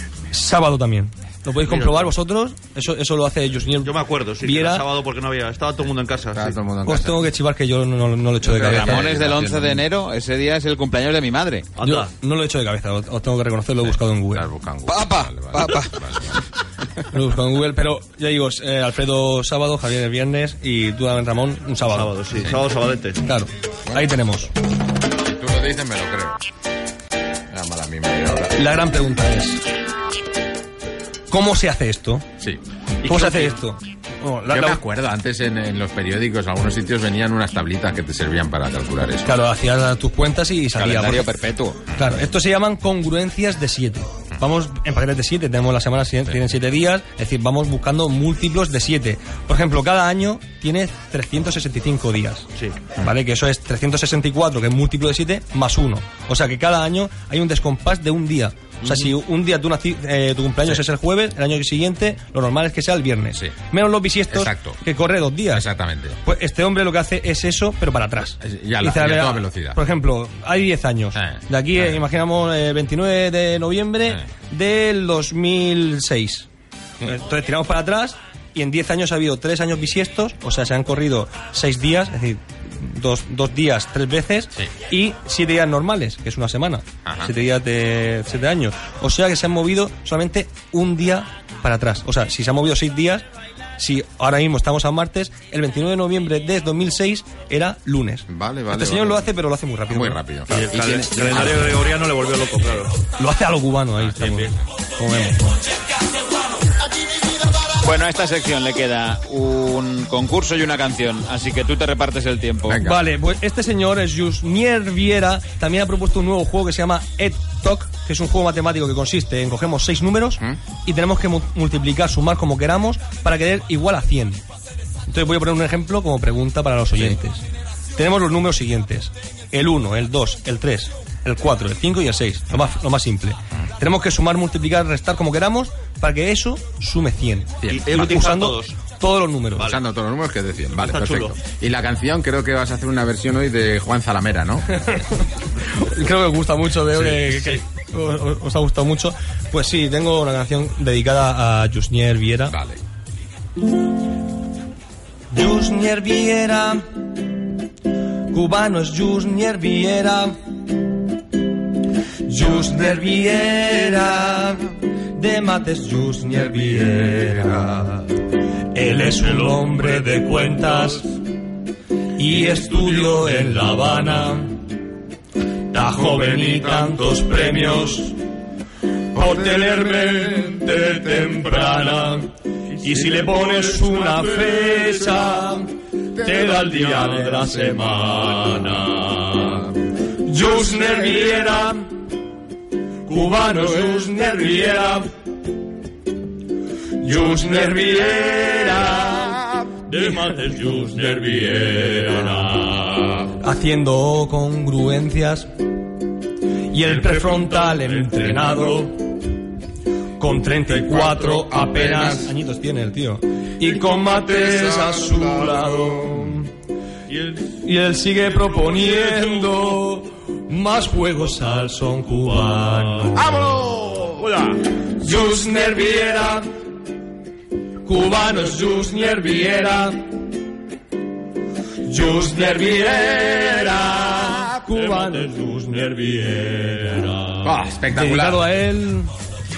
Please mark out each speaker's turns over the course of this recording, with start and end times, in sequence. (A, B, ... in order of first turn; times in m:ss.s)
0:00.3-0:04.8 A
0:01.7-0:02.0 B
0:03.8-0:06.6 C
0:06.3-0:07.3 D
0:06.8-0:09.1 A
0:08.4-0:09.9 D
0:08.5-0:11.7 B
0:11.8-0:12.1 C
0:11.8-0:14.5 A
0:14.3-0:16.4 D
0:14.9-0:15.9 B
0:17.1-0:22.1 A
0:21.9-0:23.2 C
0:23.2-0:24.5 A
0:25.1-0:26.4 D
0:27.5-0:28.6 D
0:28.5-0:29.6 A
0:31.3-0:32.3 A
0:33.0-0:33.6 C
0:33.0-0:34.8 A
0:34.5-0:39.3 D
0:39.2-0:41.3 A
0:40.7-0:41.8 B
0:41.9-1:05.6 A
0:41.9-0:42.2 D
1:04.3-1:04.8 D
1:05.5-1:06.2 D
1:06.2-1:16.5 A
1:08.4-1:09.8 D
1:11.2-1:12.0 D
1:17.0-1:33.2 A
1:27.0-1:27.3 D
1:33.8-1:40.2 A
1:38.3-1:39.3 D
1:39.9-1:41.8 D
1:40.5-1:43.0 C
1:43.2-1:45.6 A
1:44.2-1:44.5 C
1:47.8-1:52.8 B
1:52.7-1:53.0 D
1:52.8-2:04.4 A
2:05.1-2:07.4 A
2:07.9-2:19.7 A
2:17.6-2:18.1 D
2:17.7-2:18.8 C
2:19.6-2:24.9 D
2:20.8-2:21.4 C
2:24.9-2:32.6 A
2:32.5-2:32.8 D
2:35.3-2:36.8 A
2:38.3-2:40.4 A
2:42.2-2:51.2 A
2:52.1-2:54.7 A
2:55.7-2:58.2 A
2:59.1-3:12.0 A
3:13.0-3:15.1 A
3:17.0-3:20.9 A
3:19.9-3:22.9 C
3:23.1-3:25.5 A
3:26.6-3:29.2 A
3:30.2-3:36.5 A
3:37.5-3:43.6 A
3:43.4-3:44.1 D
3:44.2-3:44.6 C
3:44.8-3:46.5 A
3:47.8-3:50.1 A
3:51.8-3:57.2 A
3:57.4-3:58.5 D
3:57.9-3:59.1 A